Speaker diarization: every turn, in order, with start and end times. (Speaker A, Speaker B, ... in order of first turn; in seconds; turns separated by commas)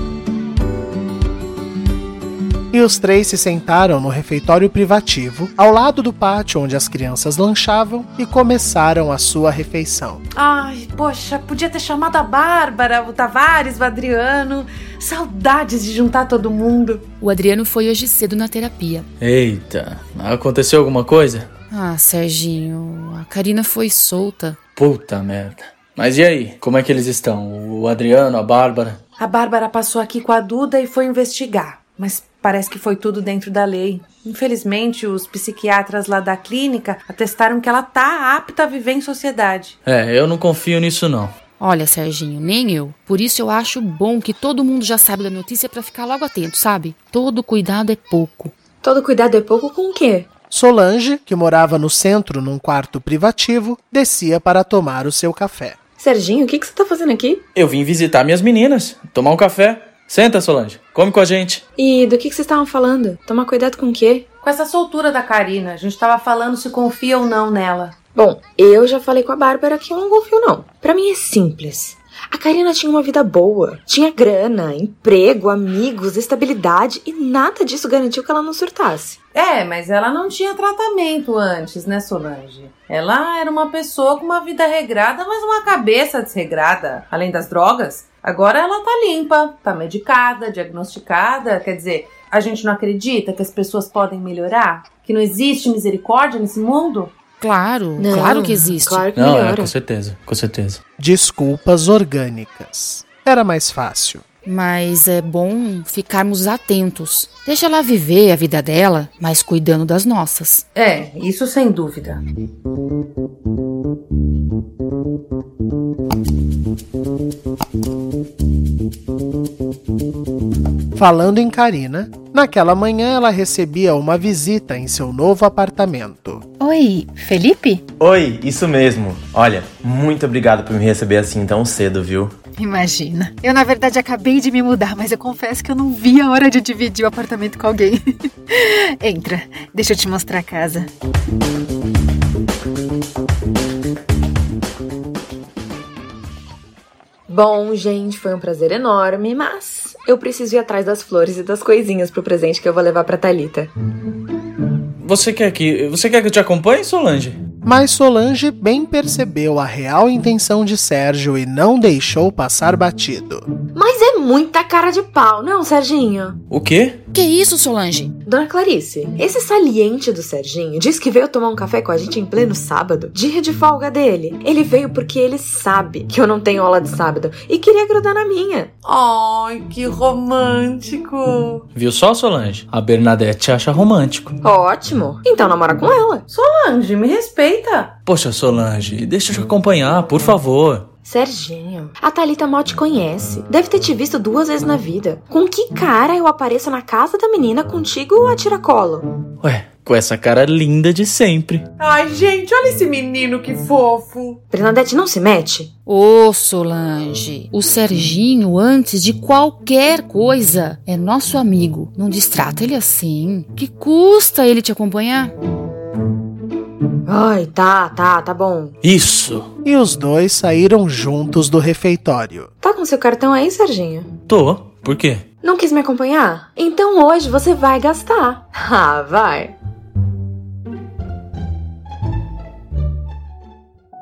Speaker A: 2.7-10.2, Speaker B: 10.3-17.0, Speaker C: 17.2-19.1, Speaker D: 19.2-21.5, Speaker C: 21.7-24.6, Speaker D: 24.8-29.0, Speaker B: 29.2-39.8, Speaker D: 39.9-41.3, Speaker C: 41.6-48.5, Speaker E: 48.8-50.3, Speaker A: 50.5-55.8, Speaker E: 56.0-57.5, Speaker D: 57.5-61.6, Speaker E: 61.8-64.3, Speaker B: 64.4-68.0, Speaker E: 68.2-79.2, Speaker B: 79.3-97.1, Speaker C: 97.4-99.0, Speaker E: 98.0-99.8, Speaker D: 99.1-100.8, Speaker A: 101.0-104.2, Speaker C: 104.5-110.7, Speaker B: 110.8-112.2, Speaker A: 121.0-126.4, Speaker F: 126.6-127.8, Speaker G: 128.0-132.3, Speaker F: 132.6-140.9, Speaker E: 147.3-153.7, Speaker D: 155.0-157.4, Speaker A: 157.7-163.5, Speaker E: 163.7-166.4, Speaker D: 166.5-167.0, Speaker C: 167.1-168.1, Speaker E: 168.3-178.7, Speaker B: 178.8-181.7, Speaker D: 181.7-184.3, Speaker E: 184.4-186.3, Speaker B: 186.3-187.9, Speaker D: 188.1-190.9, Speaker E: 191.1-199.1, Speaker D: 199.4-201.7, Speaker B: 201.8-204.4, Speaker E: 204.5-205.7, Speaker C: 205.9-215.3, Speaker E: 217.1-218.8, Speaker D: 218.8-219.5, Speaker A: 219.6-222.5, Speaker E: 222.6-224.1, Speaker D: 224.3-225.2, Speaker E: 225.4-229.6